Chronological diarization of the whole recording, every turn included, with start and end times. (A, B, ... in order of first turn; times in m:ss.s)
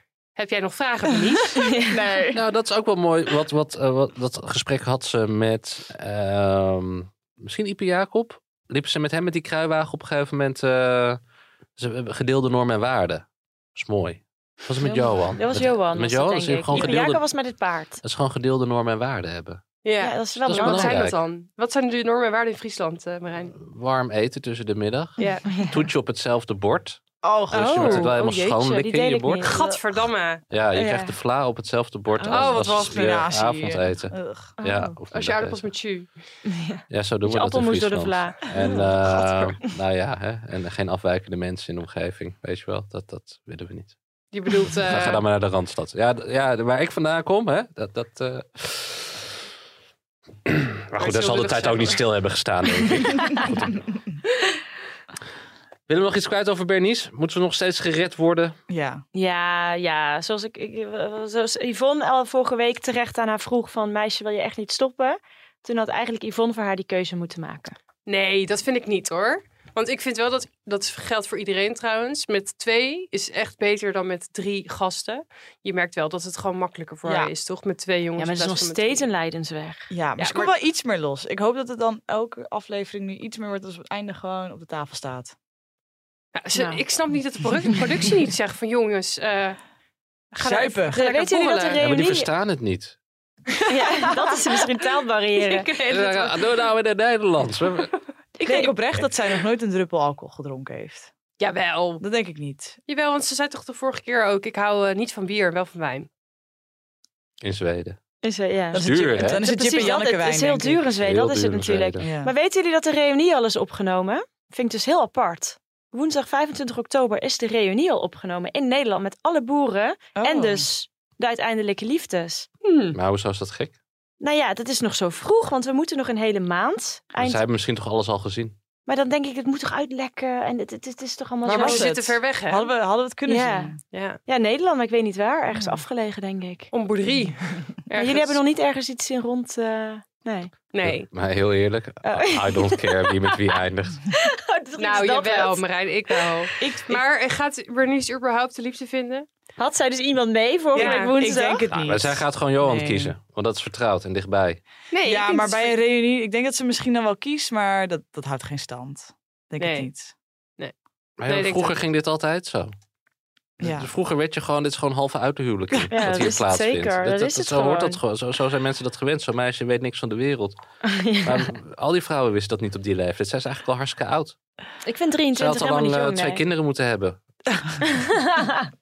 0:00.4-0:01.6 A
0:01.7-0:02.4 B
0:02.3-0:11.2 C
0:11.8-0:17.3 C
0:14.8-0:18.0 D
0:16.7-0:17.0 B
0:18.0-0:19.6 C
0:19.8-0:23.5 A
0:20.0-0:21.0 D
0:20.4-0:21.2 C
0:23.5-0:29.5 C
0:25.2-0:25.4 A
0:25.5-0:25.8 D
0:27.2-0:27.9 B
0:27.5-0:29.6 D
0:27.7-0:28.0 A
0:29.4-0:30.4 A
0:30.5-0:35.6 C
0:30.8-0:31.1 D
0:32.2-0:34.6 B
0:32.3-0:32.6 A
0:34.6-0:34.9 D
0:35.1-0:36.1 A
0:36.4-0:38.8 D
0:36.9-0:44.0 C
0:38.6-0:39.6 B
0:44.3-0:45.2 A
0:44.8-0:49.2 C
0:50.5-0:53.8 C
0:51.0-0:52.0 A
0:55.9-0:58.6 C
0:58.7-0:59.0 B
0:59.1-1:07.7 D
1:08.0-1:19.1 A
1:17.0-1:17.3 B
1:18.2-1:19.9 D
1:19.9-1:25.3 B
1:20.2-1:20.5 A
1:26.4-1:29.6 A
1:26.5-1:26.8 D
1:30.3-1:31.0 B
1:30.4-1:31.8 A
1:30.9-1:32.3 D
1:31.8-1:33.0 C
1:33.7-1:35.7 D
1:35.4-1:36.6 A
1:35.9-1:37.9 C
1:38.4-1:41.1 B
1:38.4-1:38.8 D
1:41.4-1:42.0 A
1:42.0-1:42.8 B
1:42.9-1:46.1 A
1:47.4-1:48.0 C
1:48.2-2:02.5 D
1:48.7-1:50.8 B
1:48.8-1:49.4 C
1:51.0-1:52.0 C
1:52.0-1:52.3 B
2:00.1-2:00.6 B
2:02.6-2:03.0 A
2:02.9-2:03.8 C
2:04.2-2:07.4 D
2:07.2-2:08.5 C
2:08.9-2:11.9 D
2:11.4-2:12.7 A
2:11.5-2:13.8 B
2:13.3-2:13.7 D
2:13.9-2:14.2 A
2:14.2-2:16.7 D
2:15.5-2:15.8 B
2:16.7-2:18.4 A
2:17.9-2:20.5 D
2:20.7-2:21.1 A
2:20.8-2:24.0 C
2:22.0-2:23.1 D
2:24.1-2:25.6 D
2:24.8-2:29.2 A
2:26.6-2:27.0 B
2:29.6-2:31.6 D
2:30.7-2:33.1 B
2:30.8-2:31.1 A
2:31.7-2:34.6 C
2:34.9-2:35.7 A
2:35.0-2:40.1 B
2:39.6-2:39.9 A
2:41.2-2:42.7 C
2:41.2-2:41.8 A
2:43.6-2:43.9 B
2:43.6-2:50.6 C
2:45.7-2:46.3 B
2:45.9-2:48.0 D
2:50.8-2:51.5 D
2:51.2-2:54.4 C
2:54.8-2:56.4 D
2:55.3-2:57.2 C
2:57.8-2:58.7 D